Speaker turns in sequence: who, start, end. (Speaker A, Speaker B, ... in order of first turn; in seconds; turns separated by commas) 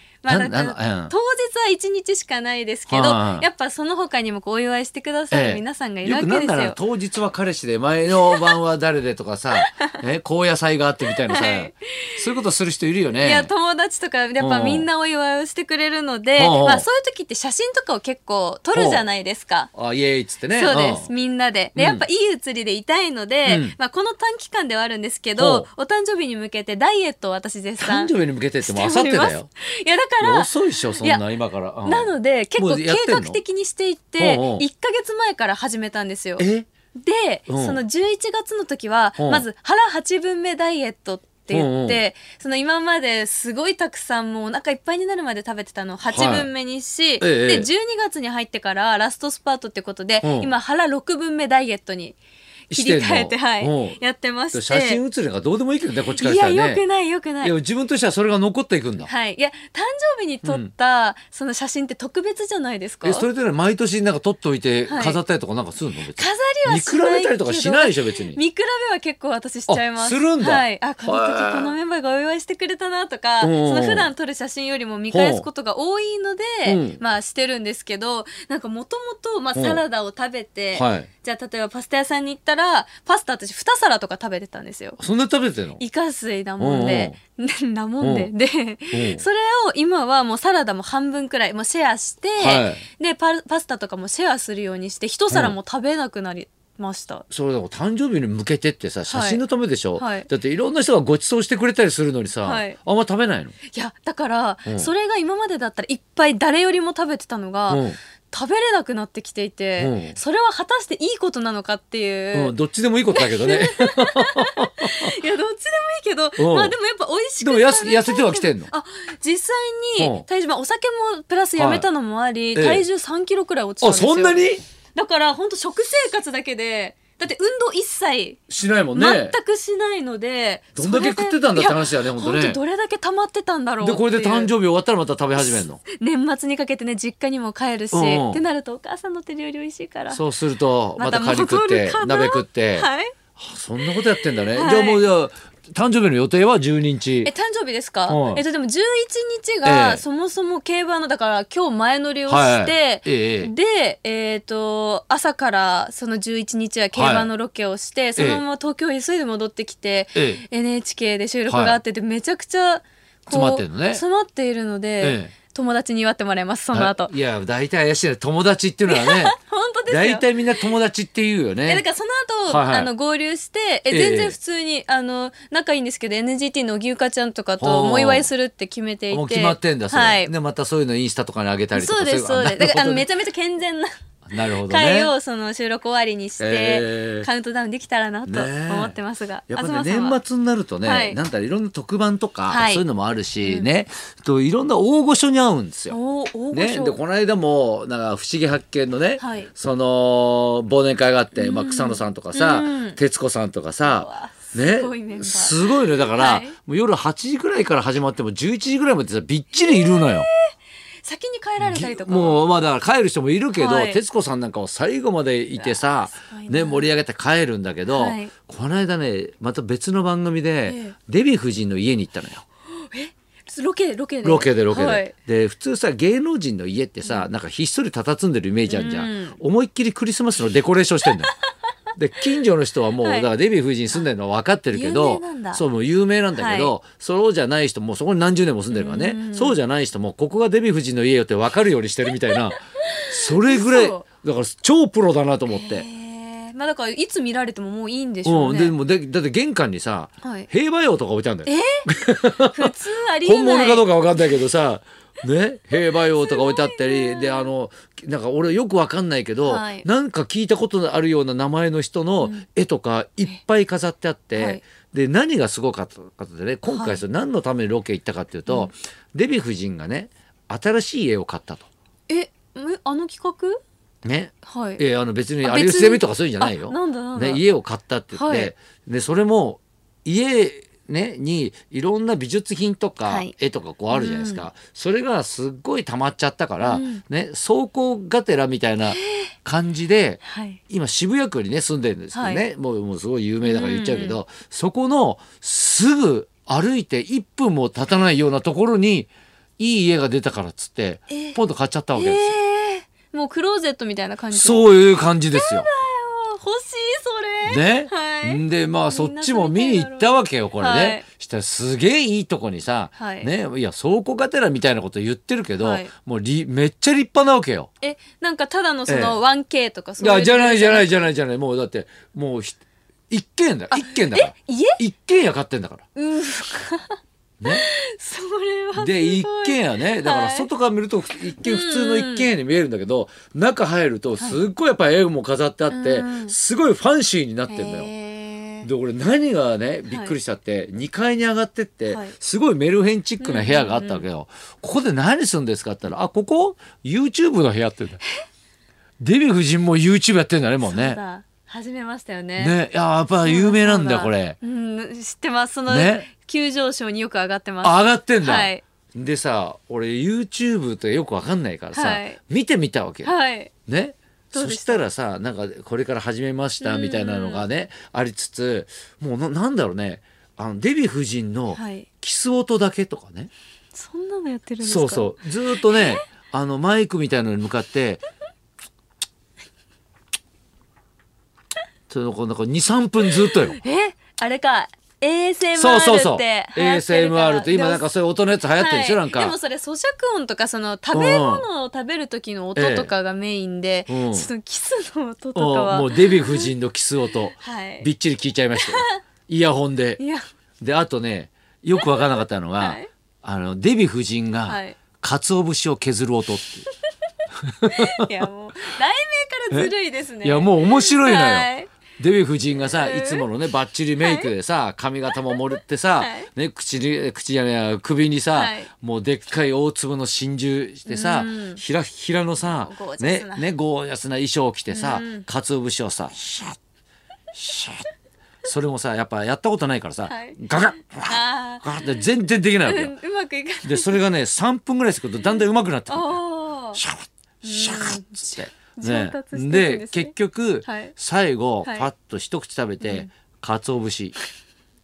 Speaker A: 0.2-6.8, Speaker B: 0.3-1.1, Speaker B: 2.9-3.5, Speaker B: 5.3-13.5, Speaker A: 9.6-9.9, Speaker A: 11.3-12.2, Speaker A: 13.2-19.7, Speaker B: 14.4-14.9, Speaker B: 16.4-16.9, Speaker B: 18.7-19.0, Speaker B: 19.7-21.1, Speaker A: 20.5-31.3, Speaker B: 21.8-22.0, Speaker B: 23.5-23.8, Speaker B: 25.4-25.7, Speaker B: 27.8-29.5, Speaker B: 30.2-33.4, Speaker A: 31.9-36.5, Speaker B: 34.2-34.6, Speaker B: 36.4-36.7, Speaker A: 37.0-52.2, Speaker B: 37.5-37.8, Speaker B: 39.2-39.5, Speaker B: 41.5-42.0, Speaker B: 46.1-46.5, Speaker B: 47.2-47.7, Speaker B: 50.2-50.5, Speaker B: 52.7-54.0, Speaker A: 52.7-55.0, Speaker B: 54.5-56.8, Speaker A: 56.1-57.5, Speaker B: 57.4-59.1, Speaker A: 59.0-63.3, Speaker B: 60.4-60.7, Speaker B: 63.0-68.4, Speaker A: 64.9-65.2, Speaker A: 66.2-85.0, Speaker B: 69.7-71.8, Speaker B: 73.4-74.1, Speaker B: 75.1-75.5, Speaker B: 76.7-77.0, Speaker B: 79.5-79.8, Speaker B: 80.8-81.1, Speaker B: 85.0-85.8, Speaker A: 85.8-97.3, Speaker B: 86.6-87.2, Speaker B: 88.0-88.3, Speaker B: 88.9-89.2, Speaker B: 92.4-92.8, Speaker B: 97.3-103.5, Speaker A: 99.1-99.4, Speaker A: 100.0-100.3, Speaker A: 102.5-102.8, Speaker A: 103.7-112.5, Speaker B: 107.7-108.0, Speaker B: 109.8-110.2, Speaker B: 112.3-115.1, Speaker A: 113.1-124.4, Speaker B: 116.4-116.8, Speaker B: 117.4-118.7, Speaker B: 120.0-120.3, Speaker B: 121.6-121.9, Speaker B: 122.5-122.8, Speaker B: 123.8-124.6, Speaker A: 125.0-128.4, Speaker B: 128.5-129.4, Speaker A: 128.9-134.5, Speaker B: 130.8-132.6, Speaker B: 133.8-135.8, Speaker A: 135.4-140.2, Speaker B: 137.9-138.4, Speaker B: 140.1-147.3, Speaker A: 141.0-143.1, Speaker A: 144.5-145.0, Speaker A: 147.2-167.1, Speaker B: 148.1-148.4, Speaker B: 149.6-150.0, Speaker B: 152.3-153.5, Speaker B: 156.9-157.3, Speaker B: 158.2-158.4, Speaker B: 160.2-160.4, Speaker B: 161.5-161.8, Speaker B: 163.3-164.0, Speaker B: 165.0-165.3, Speaker B: 166.7-169.3, Speaker A: 168.9-170.3, Speaker B: 169.9-171.8, Speaker A: 171.7-180.3, Speaker B: 172.5-172.9, Speaker B: 173.9-174.4, Speaker B: 177.6-178.3, Speaker B: 179.1-183.1, Speaker A: 181.8-183.9, Speaker B: 184.2-185.1, Speaker A: 184.7-190.2, Speaker B: 186.4-187.3, Speaker B: 188.3-189.0, Speaker B: 189.5-196.0, Speaker A: 190.8-191.2, Speaker A: 192.5-192.8, Speaker A: 193.4-193.7, Speaker A: 195.9-197.0, Speaker B: 196.5-210.3, Speaker A: 199.2-199.5, Speaker A: 201.4-203.0, Speaker A: 203.8-206.6, Speaker A: 209.5-210.5, Speaker A: 211.0-212.4, Speaker B: 211.6-222.4, Speaker A: 213.6-214.0, Speaker A: 215.5-216.9, Speaker A: 217.9-218.3, Speaker A: 220.7-221.0, Speaker A: 222.8-225.1, Speaker B: 224.2-231.3, Speaker A: 227.0-227.3, Speaker A: 228.7-229.4, Speaker B: 232.0-245.9, Speaker A: 233.0-233.3, Speaker A: 234.7-235.6, Speaker A: 236.3-236.7, Speaker A: 238.7-239.6, Speaker A: 242.6-244.0, Speaker A: 245.5-248.8, Speaker B: 248.2-252.7, Speaker A: 250.2-250.5, Speaker A: 251.4-251.8, Speaker A: 252.4-253.9, Speaker B: 253.2-271.7, Speaker A: 256.2-257.5, Speaker A: 259.4-259.9, Speaker A: 264.3-264.6, Speaker A: 266.7-267.0, Speaker A: 272.1-273.6, Speaker B: 274.0-302.4, Speaker A: 274.5-274.8, Speaker A: 275.4-277.4, Speaker A: 278.1-278.5, Speaker A: 283.1-283.3, Speaker A: 283.9-284.5, Speaker A: 286.6-287.0, Speaker A: 288.9-289.3, Speaker A: 290.2-290.6, Speaker A: 292.1-292.4, Speaker A: 293.4-294.2, Speaker A: 301.1-301.4, Speaker A: 301.9-304.7, Speaker B: 304.3-305.7, Speaker A: 305.3-311.0, Speaker B: 307.4-317.7, Speaker A: 313.0-313.3, Speaker A: 315.6-315.9, Speaker A: 317.8-320.9, Speaker B: 318.9-319.2, Speaker B: 320.0-322.6, Speaker B: 323.1-325.9, Speaker A: 323.7-324.8, Speaker A: 326.0-330.5, Speaker B: 328.8-337.9, Speaker A: 331.4-332.3, Speaker A: 335.7-336.4, Speaker A: 337.5-338.7, Speaker B: 338.6-348.0, Speaker A: 339.9-340.2, Speaker A: 341.9-342.1, Speaker A: 343.2-344.1, Speaker B: 349.0-351.0, Speaker A: 350.6-352.6, Speaker B: 352.4-354.4, Speaker A: 353.2-358.6, Speaker B: 355.7-356.1, Speaker B: 357.6-363.1, Speaker A: 361.7-362.2, Speaker A: 363.0-363.5, Speaker B: 363.7-373.3, Speaker A: 364.3-364.8, Speaker A: 366.6-367.5, Speaker A: 371.5-371.9, Speaker A: 373.7-376.0, Speaker B: 374.6-378.0, Speaker B: 381.9-383.6, Speaker A: 383.6-387.9, Speaker B: 385.6-389.4, Speaker A: 388.6-396.5, Speaker B: 390.9-391.4, Speaker B: 392.6-392.9, Speaker B: 393.9-394.3, Speaker B: 395.4-400.0, Speaker A: 397.4-397.9, Speaker A: 398.6-399.0, Speaker B: 400.6-406.7, Speaker A: 401.8-402.9, Speaker A: 404.5-404.8, Speaker B: 407.4-408.3, Speaker A: 407.7-411.7, Speaker B: 410.2-426.6, Speaker A: 412.7-413.2, Speaker A: 414.0-414.3, Speaker A: 416.0-416.3, Speaker A: 418.3-418.7, Speaker A: 420.9-421.6, Speaker A: 422.5-423.5, Speaker A: 424.7-425.3, Speaker B: 427.3-427.9, Speaker B: 428.4-432.9, Speaker A: 430.1-430.4, Speaker A: 430.9-431.8, Speaker A: 432.6-434.0, Speaker B: 433.6-436.2, Speaker A: 435.9-436.8, Speaker B: 436.7-444.1, Speaker A: 437.4-440.1, Speaker A: 440.6-440.9, Speaker A: 442.8-443.1